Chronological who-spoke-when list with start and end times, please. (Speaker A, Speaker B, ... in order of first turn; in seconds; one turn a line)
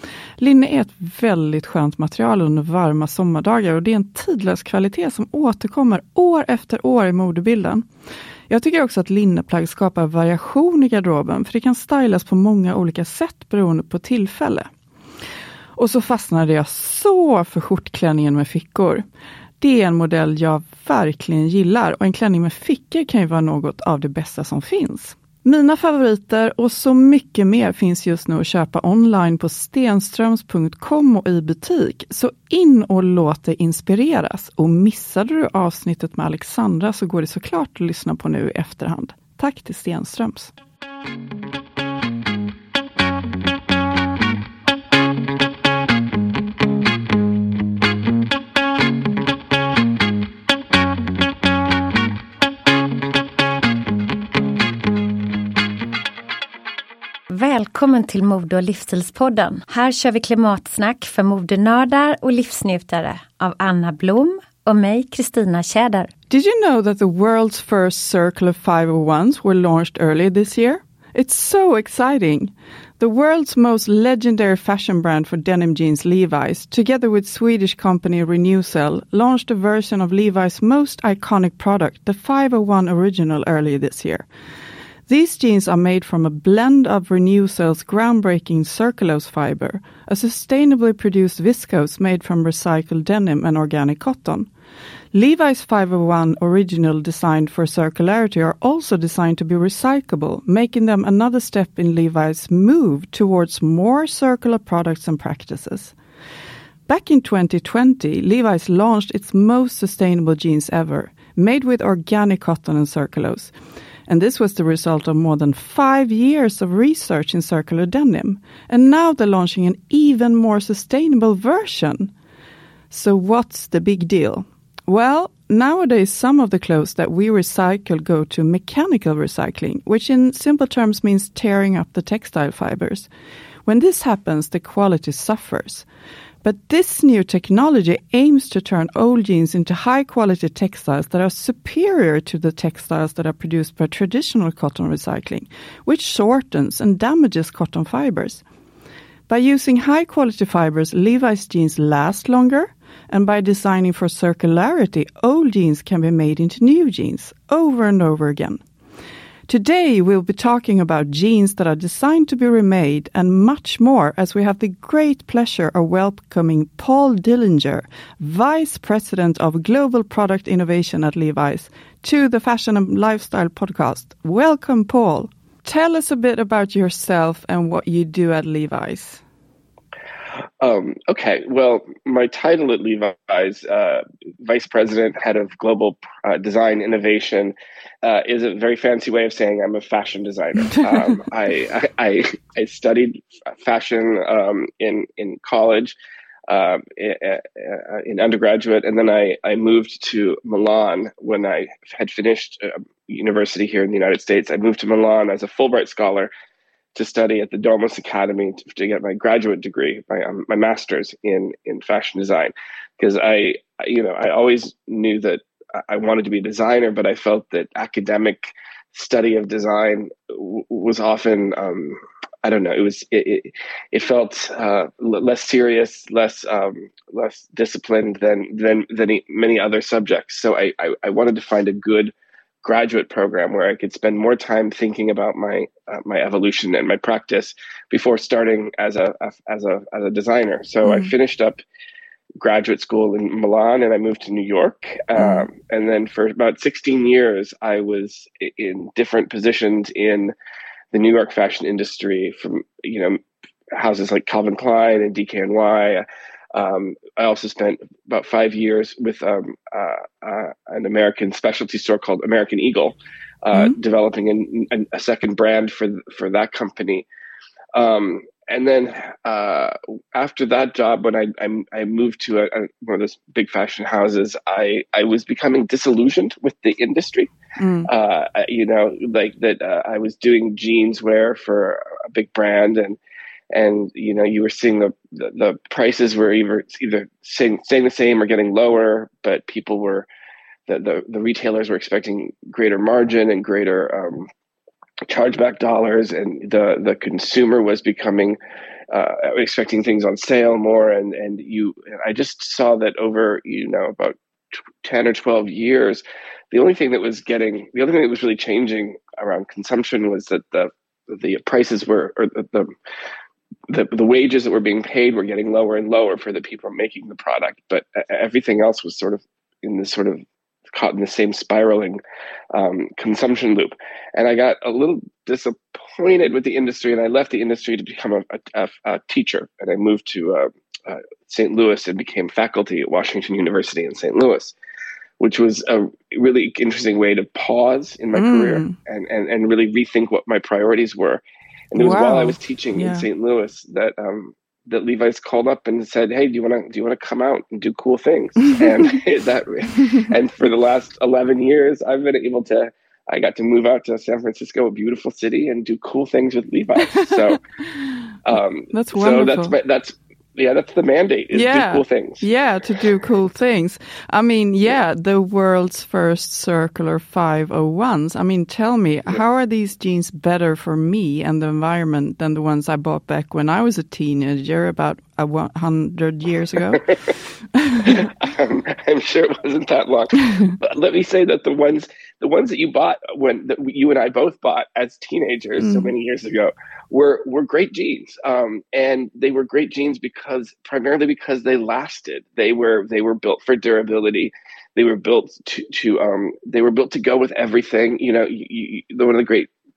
Speaker A: 0.4-7.8
Speaker A: 8.5-14.7
Speaker A: 15.8-19.0
Speaker A: 19.6-40.5
Speaker B: 57.3-66.1
Speaker A: 66.3-84.3
Speaker A: 85.1-94.5
Speaker A: 95.1-105.9
Speaker A: 106.9-113.5
Speaker A: 114.1-122.1
Speaker A: 122.9-133.1
Speaker A: 133.7-135.8
Speaker A: 136.4-148.4
Speaker A: 149.3-158.6
Speaker A: 159.5-179.2
Speaker C: 180.6-195.9
Speaker C: 196.5-206.3
Speaker C: 206.9-241.6
Speaker A: 240.8-241.1
Speaker C: 242.4-250.3
Speaker A: 245.2-245.5
Speaker C: 250.9-253.2
Speaker C: 253.7-267.1
Speaker C: 267.7-277.3
Speaker A: 277.6-277.9
Speaker C: 277.9-283.0
Speaker C: 283.5-290.1
Speaker C: 290.7-294.3
Speaker C: 295.1-298.4
Speaker C: 298.9-304.1
Speaker C: 304.8-312.7
Speaker C: 313.7-320.2
Speaker C: 320.7-322.0
Speaker C: 322.5-334.5
Speaker C: 335.2-357.4
Speaker A: 338.1-338.8
Speaker A: 341.8-343.1
Speaker C: 358.2-362.2
Speaker A: 358.7-359.5
Speaker A: 361.3-376.9
Speaker A: 377.5-378.1
Speaker C: 377.9-399.5
Speaker A: 385.6-385.9